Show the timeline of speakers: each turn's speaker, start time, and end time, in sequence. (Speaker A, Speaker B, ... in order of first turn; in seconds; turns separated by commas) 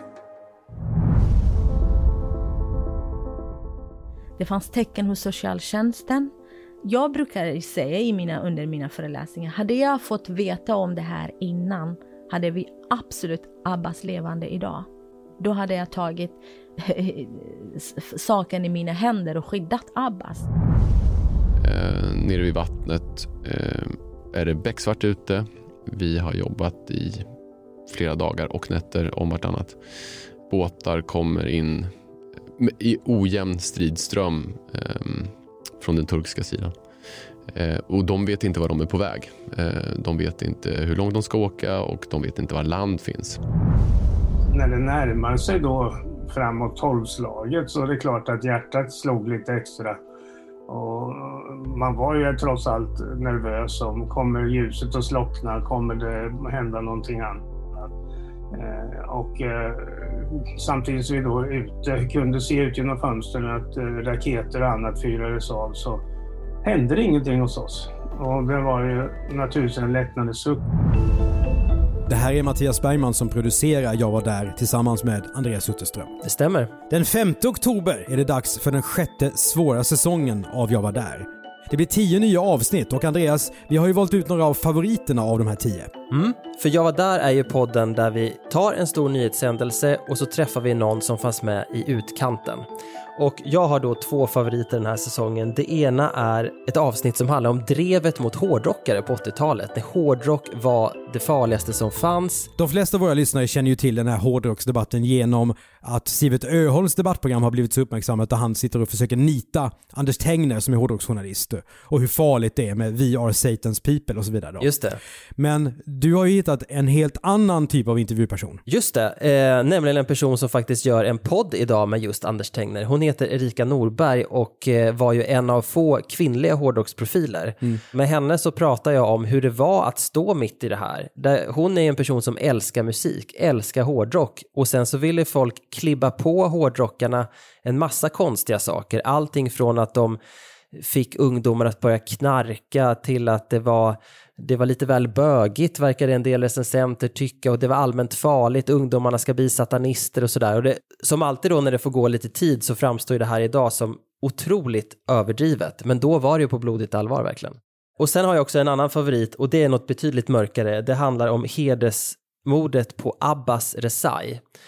Speaker A: 4.4-6.3, Speaker A: 6.8-14.9, Speaker A: 15.4-16.4, Speaker A: 16.9-20.5, Speaker B: 21.6-27.3, Speaker B: 27.9-29.8, Speaker B: 30.4-31.9, Speaker B: 32.6-36.8, Speaker B: 37.5-43.4, Speaker C: 44.5-50.0, Speaker C: 50.7-57.9, Speaker C: 58.5-66.0, Speaker C: 66.6-70.6, Speaker D: 72.1-76.1, Speaker E: 76.2-76.7, Speaker D: 76.9-85.9, Speaker E: 86.1-92.6, Speaker E: 93.2-102.5, Speaker D: 102.6-114.7, Speaker E: 114.6-115.0, Speaker D: 115.4-118.6, Speaker E: 118.7-140.2, Speaker E: 140.8-164.4